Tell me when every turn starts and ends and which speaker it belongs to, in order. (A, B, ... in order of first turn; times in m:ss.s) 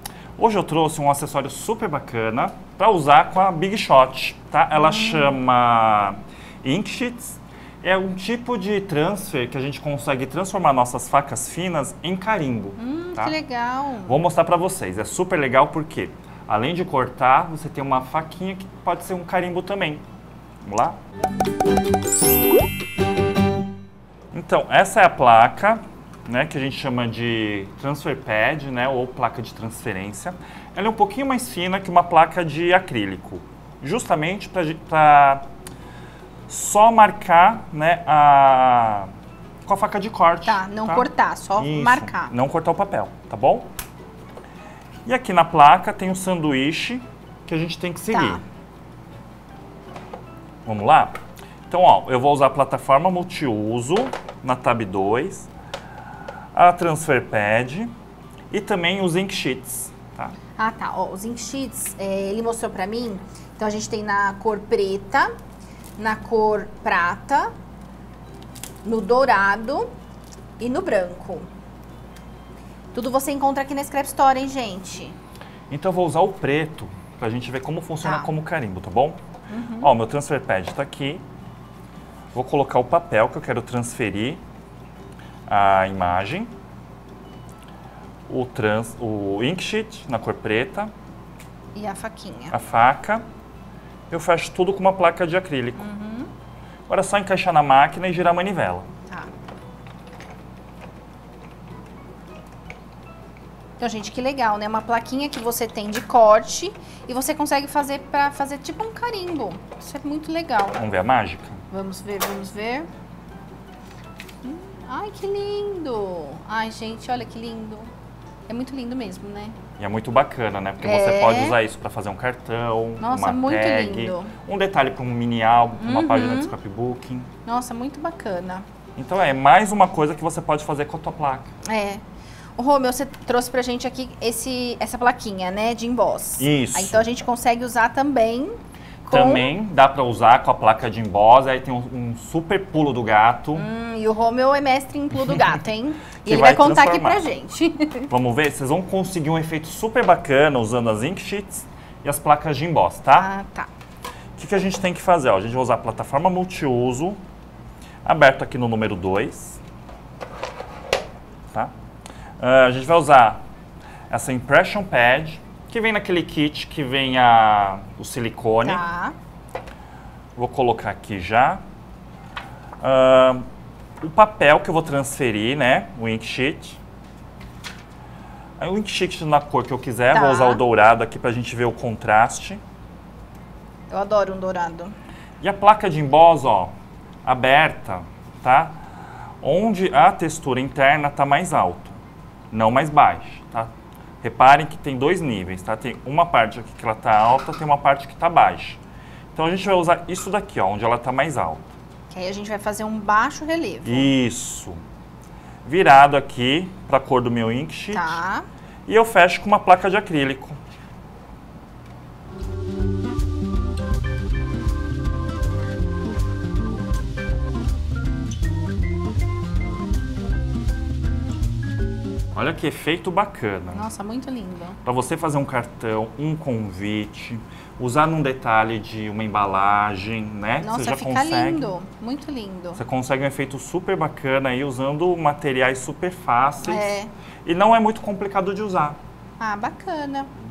0:00.4-0:13.3 A
0:04.7-0:05.4 B
0:12.8-0:14.2 B
0:14.0-0:20.0 A
0:20.6-0:21.0 A
0:24.3-0:35.4 A
0:36.5-0:39.1 A
0:39.6-0:43.7 A
0:40.4-0:42.3 B
0:45.0-0:48.4 A
0:48.1-0:48.4 B
0:50.6-0:51.1 A
0:51.7-0:55.5 A
0:56.5-0:57.9 A
0:58.5-1:00.3 A
1:00.6-1:05.3 B
1:06.0-1:07.5 B
1:08.8-1:09.9 B
1:10.6-1:11.5 B
1:12.9-1:15.2 B
1:15.7-1:19.2 A
1:18.0-1:18.3 B
1:19.5-1:19.9 B
1:19.8-1:21.2 A
1:22.3-1:24.4 A
1:25.5-1:26.5 A
1:28.3-1:30.9 A
1:31.7-1:32.5 B
1:32.5-1:33.2 A
1:34.1-1:35.8 A
1:35.8-1:36.3 B
1:36.9-1:38.9 A
1:43.8-1:50.8 B
1:50.8-1:51.6 A
1:51.7-1:52.9 B
1:54.4-1:57.9 B
1:58.5-1:59.6 B
1:59.8-2:07.3 A
2:00.8-2:01.6 B
2:03.0-2:04.3 B
2:05.8-2:06.5 B
2:07.4-2:08.6 B
2:09.0-2:11.5 A
2:11.6-2:12.0 B
2:12.6-2:19.5 B
2:16.4-2:17.0 A
2:19.1-2:23.7 A
2:23.5-2:28.1 B
2:26.2-2:27.2 A
2:28.1-2:33.3 A
2:33.2-2:33.7 B
2:34.4-2:37.2 A
2:38.0-2:39.6 A
2:42.4-2:43.4 A
2:44.1-2:48.8 A
2:48.6-2:49.1 B
2:50.4-2:51.6 A
2:52.8-2:53.4 A
2:54.0-2:56.8 A
2:58.6-3:02.6 A
3:00.1-3:00.6 B
3:03.9-3:04.9 B
3:05.4-3:06.7 A
3:07.2-3:08.8 A
3:09.4-3:12.0 A
3:12.5-3:13.7 A
3:14.2-3:18.8 A
3:19.3-3:21.6 A
3:22.1-3:24.1 B
3:23.8-3:24.8 A
3:25.6-3:28.2 A
3:27.9-3:28.4 B
3:28.8-3:30.6 A
3:42.3-3:43.9 A
3:43.7-3:44.8 B
3:44.8-3:51.7 A
3:50.6-3:52.8 B
3:52.8-3:56.9 A
3:56.6-3:57.1 B
3:57.4-3:59.0 A
3:59.4-4:00.3 B